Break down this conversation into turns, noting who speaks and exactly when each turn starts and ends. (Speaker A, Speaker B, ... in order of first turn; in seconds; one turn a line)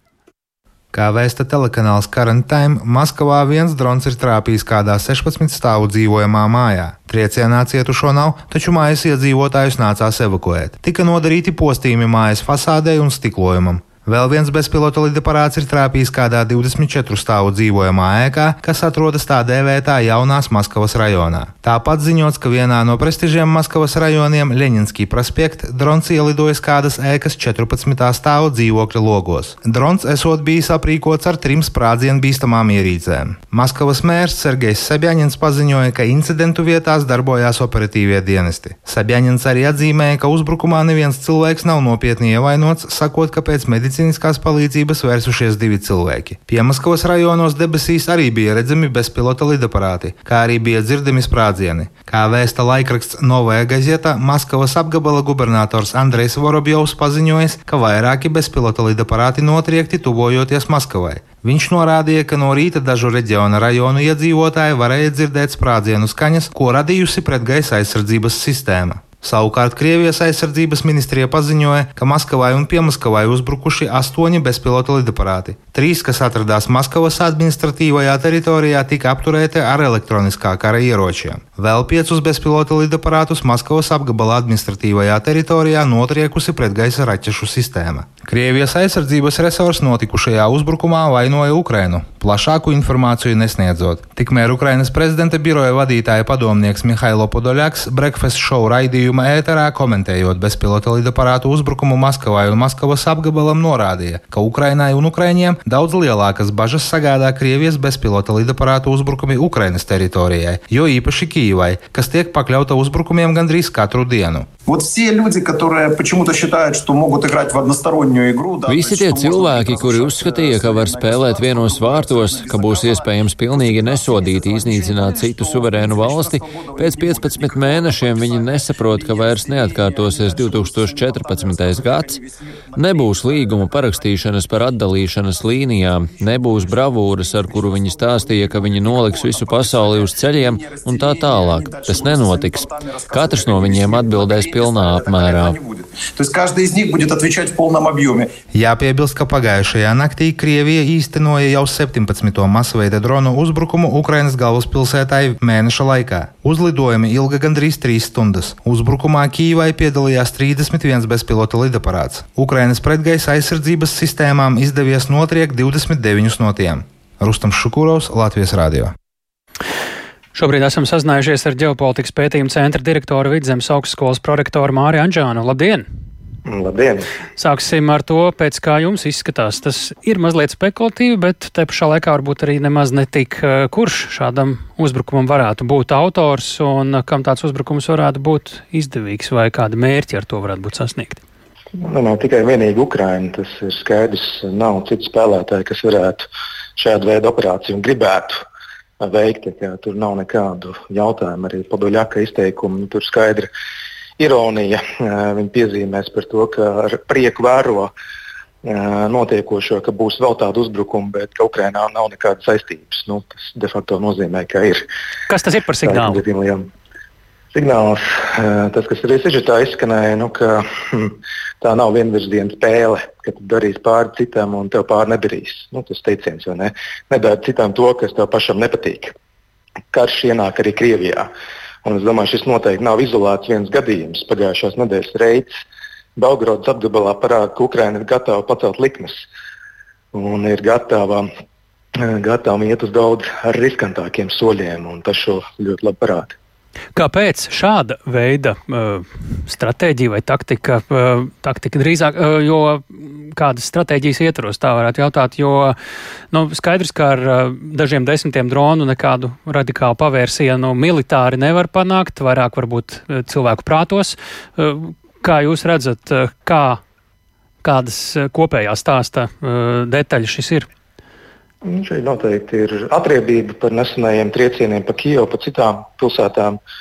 Speaker A: 0.9-114.5
Speaker B: 114.7-133.5
Speaker C: 118.6-145.7
Speaker B: 137.6-148.3
Speaker A: 148.5-168.9
Speaker D: 170.3-175.8
Speaker E: 176.4-177.1
Speaker D: 177.4-191.2
Speaker E: 191.8-198.4
Speaker E: 199.0-203.5
Speaker E: 204.2-207.9
Speaker E: 208.6-214.8
Speaker D: 215.3-216.2
Speaker E: 215.8-216.7
Speaker E: 217.5-229.1
Speaker E: 229.9-231.3
Speaker E: 231.8-235.5
Speaker E: 236.2-239.2
Speaker E: 240.1-241.3
Speaker E: 241.9-246.3
Speaker D: 246.9-255.8
Speaker D: 256.3-266.8
Speaker D: 267.6-270.7
Speaker E: 271.6-276.6